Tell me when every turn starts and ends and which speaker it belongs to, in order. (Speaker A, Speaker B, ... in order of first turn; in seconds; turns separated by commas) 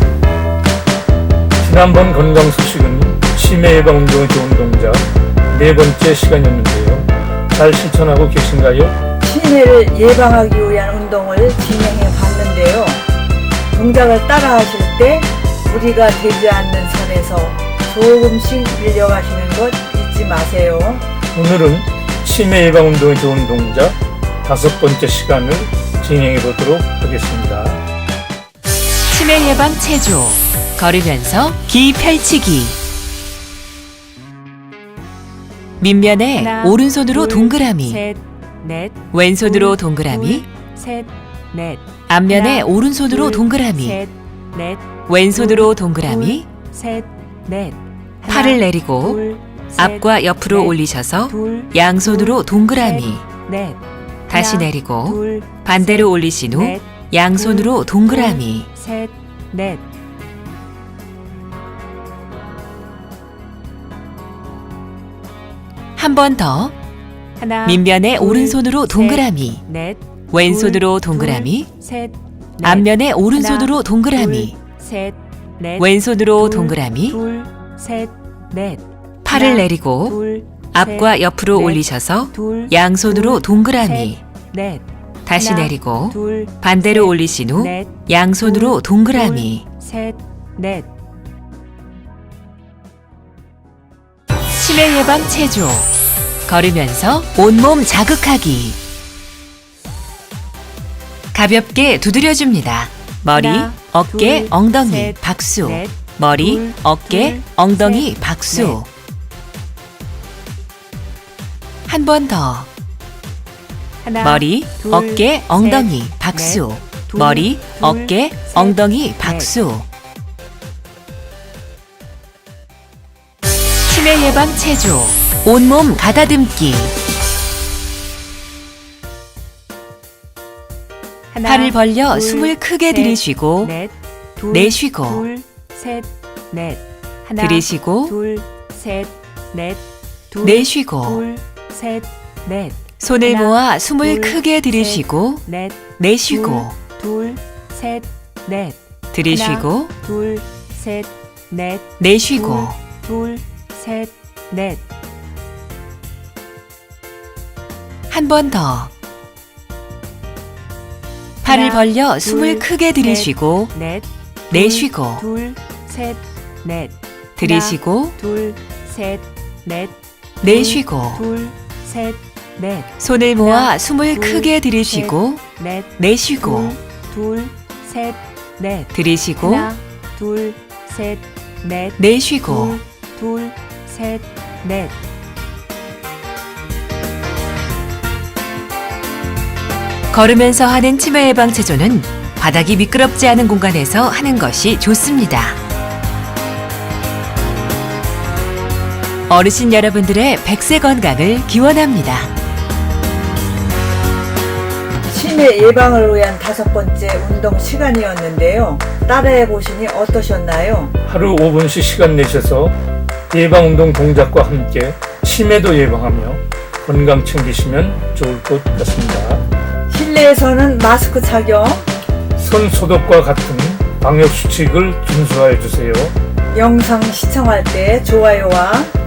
Speaker A: 1.6-8.9, Speaker B: 9.2-13.0, Speaker B: 13.7-21.0, Speaker A: 21.3-27.8, Speaker C: 29.1-32.8, Speaker C: 35.8-38.0, Speaker D: 36.3-50.7, Speaker C: 39.1-40.4, Speaker C: 42.1-44.0, Speaker C: 45.1-46.5, Speaker C: 48.2-49.2, Speaker C: 49.8-53.2, Speaker D: 51.3-53.8, Speaker C: 54.3-58.7, Speaker D: 54.3-59.8, Speaker C: 66.0-66.7, Speaker D: 67.4-81.8, Speaker C: 67.6-69.6, Speaker C: 70.3-71.7, Speaker C: 72.6-74.6, Speaker C: 75.8-77.2, Speaker C: 79.2-80.2, Speaker C: 80.7-84.2, Speaker D: 82.3-84.8, Speaker C: 85.2-89.6, Speaker D: 85.3-90.9, Speaker C: 94.5-95.9, Speaker C: 96.5-98.8, Speaker C: 101.3-108.9, Speaker D: 103.3-108.8, Speaker C: 111.9-112.7, Speaker D: 114.0-119.5, Speaker C: 114.2-119.8, Speaker C: 123.9-127.0, Speaker D: 131.3-148.8, Speaker C: 131.4-133.7, Speaker C: 134.5-135.3, Speaker C: 137.4-138.2, Speaker C: 140.4-141.2, Speaker C: 143.0-145.4, Speaker C: 146.0-146.7, Speaker C: 149.1-149.9, Speaker D: 149.3-154.8, Speaker C: 152.0-152.8, Speaker C: 158.1-158.9, Speaker C: 161.4-163.7, Speaker D: 161.4-175.9, Speaker C: 164.5-165.2, Speaker C: 167.4-168.2, Speaker C: 170.4-171.2, Speaker C: 173.0-175.4, Speaker C: 176.0-176.8, Speaker D: 176.4-178.9, Speaker C: 178.9-179.7, Speaker D: 179.4-184.9, Speaker C: 182.0-182.8, Speaker C: 190.1-195.6, Speaker C: 199.3-202.3, Speaker B: 205.1-210.9, Speaker A: 211.1-212.8, Speaker A: 213.3-219.4, Speaker B: 219.9-221.9, Speaker A: 222.4-226.2, Speaker B: 226.5-228.9